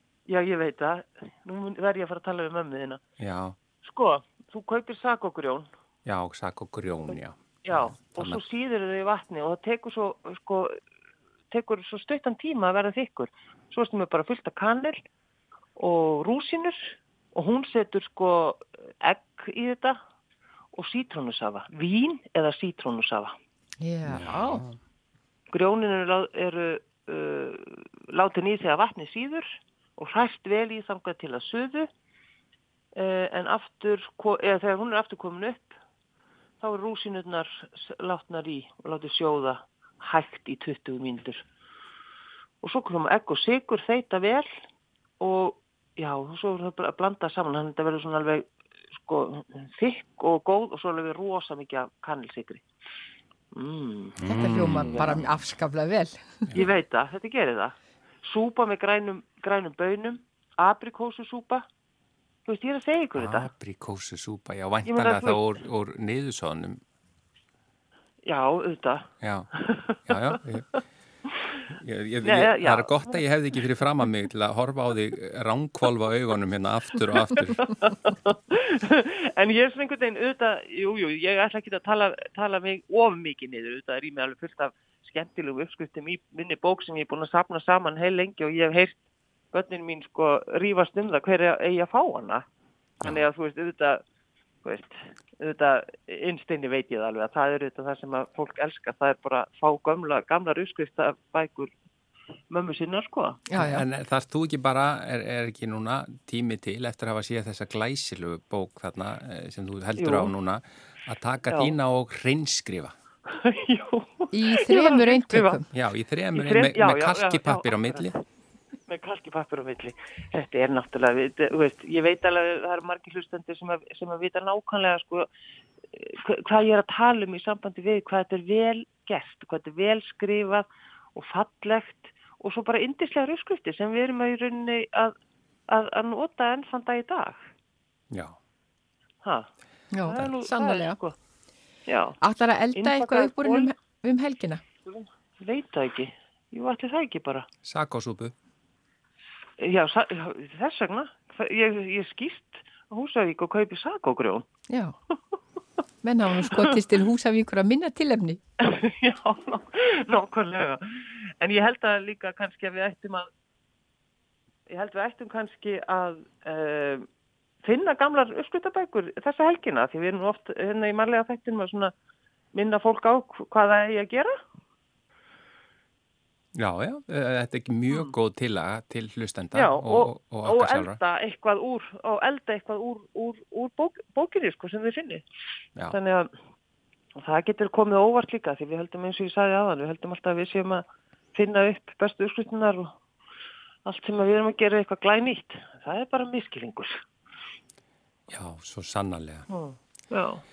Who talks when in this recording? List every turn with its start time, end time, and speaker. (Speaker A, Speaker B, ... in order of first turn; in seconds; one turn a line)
Speaker A: 0.3-3.0
Speaker B: 3.2-3.6
Speaker A: 3.8-5.7
Speaker B: 6.1-8.4
Speaker A: 7.6-10.7
Speaker A: 11.5-15.0
Speaker A: 15.8-20.0
Speaker A: 20.7-23.3
Speaker C: 23.8-24.6
Speaker B: 24.1-24.8
Speaker A: 25.5-31.9
Speaker A: 33.0-35.7
Speaker A: 36.6-41.4
Speaker A: 42.6-44.5
Speaker A: 45.2-48.5
Speaker A: 49.0-52.6
Speaker A: 53.5-55.2
Speaker B: 54.2-55.2
Speaker C: 54.2-56.5
Speaker A: 56.5-61.6
Speaker A: 62.5-63.5
Speaker B: 63.2-66.8
Speaker A: 64.9-65.4
Speaker A: 68.2-70.2
Speaker B: 69.2-69.5
Speaker B: 70.1-70.7
Speaker B: 71.7-77.6
Speaker A: 72.2-73.2
Speaker A: 77.5-89.0
Speaker A: 89.5-92.4
Speaker A: 93.0-94.0
Speaker A: 94.6-101.7
Speaker A: 102.5-103.5
Speaker C: 103.5-103.8
Speaker B: 103.6-112.9
Speaker A: 110.0-110.3
Speaker A: 111.5-111.8
Speaker A: 113.3-115.6
Speaker C: 114.3-115.7
Speaker B: 115.7-118.1
Speaker A: 116.3-118.2
Speaker A: 118.9-125.3
Speaker A: 125.9-135.1
Speaker A: 135.7-137.4
Speaker C: 139.9-141.0
Speaker A: 140.0-141.2
Speaker A: 141.9-142.2
Speaker C: 142.2-144.6
Speaker A: 142.8-143.7
Speaker A: 144.9-147.5
Speaker B: 147.7-148.3
Speaker A: 149.6-154.5
Speaker C: 154.7-154.9
Speaker C: 156.0-158.4
Speaker A: 158.6-163.3
Speaker A: 164.7-167.1
Speaker A: 167.6-171.9
Speaker A: 172.5-174.3
Speaker B: 176.6-181.0
Speaker A: 179.5-185.2
Speaker A: 185.9-186.3
Speaker A: 187.2-190.8
Speaker A: 191.3-192.9
Speaker A: 193.8-197.0
Speaker B: 198.3-199.5
Speaker A: 199.5-200.4